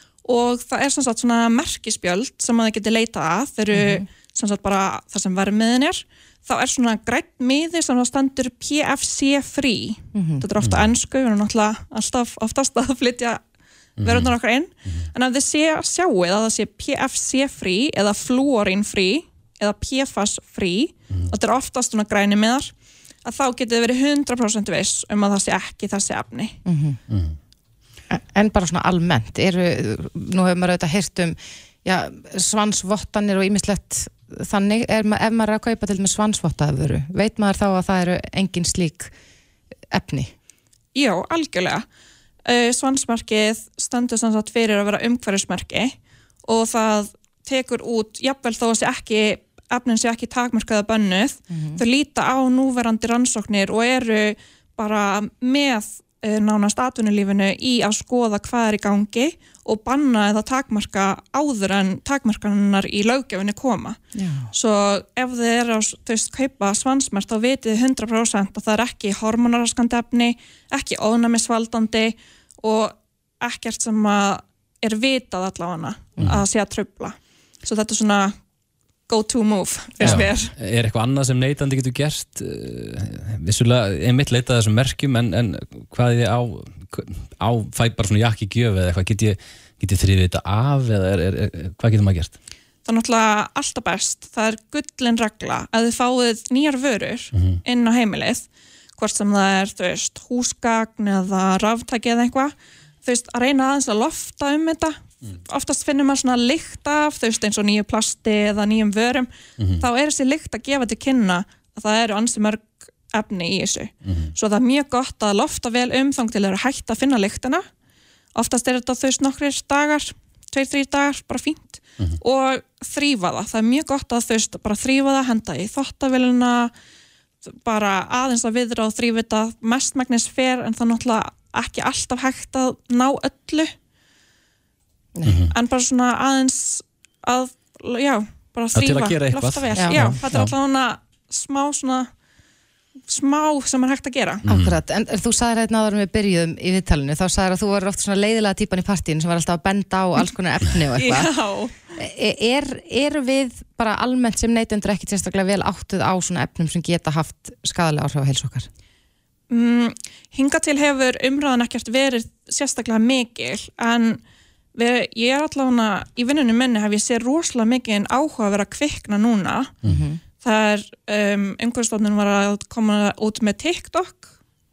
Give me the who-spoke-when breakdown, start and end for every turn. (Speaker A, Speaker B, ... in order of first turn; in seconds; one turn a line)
Speaker A: 0.2-13.4
Speaker B: 3.7-4.0
Speaker B: 10.1-10.4
Speaker C: 10.6-10.9
Speaker C: 14.0-14.3
Speaker A: 14.0-22.7
Speaker A: 23.2-26.6
Speaker B: 26.6-27.0
Speaker C: 27.1-27.4
Speaker B: 28.1-39.1
Speaker B: 39.9-40.3
Speaker A: 40.9-41.9
Speaker A: 42.4-64.0
Speaker B: 51.5-51.8
Speaker B: 64.1-64.5
Speaker A: 64.5-78.4
Speaker C: 76.2-76.4
Speaker A: 79.1-80.5
Speaker C: 80.0-92.3
Speaker A: 92.8-98.5
Speaker C: 97.3-97.6
Speaker A: 99.0-109.3
Speaker C: 109.6-109.8
Speaker A: 109.8-117.7
Speaker C: 114.0-114.3
Speaker A: 118.3-126.7
Speaker A: 127.4-133.7
Speaker B: 135.2-135.5
Speaker C: 135.2-135.5
Speaker A: 135.5-142.1
Speaker C: 138.7-140.5
Speaker B: 139.8-140.0
Speaker A: 143.1-144.4
Speaker C: 144.5-144.8
Speaker B: 144.5-151.3
Speaker A: 150.9-151.7
Speaker B: 151.9-158.7
Speaker A: 159.5-164.2
Speaker A: 164.7-169.7
Speaker B: 169.8-170.2
Speaker A: 170.4-174.3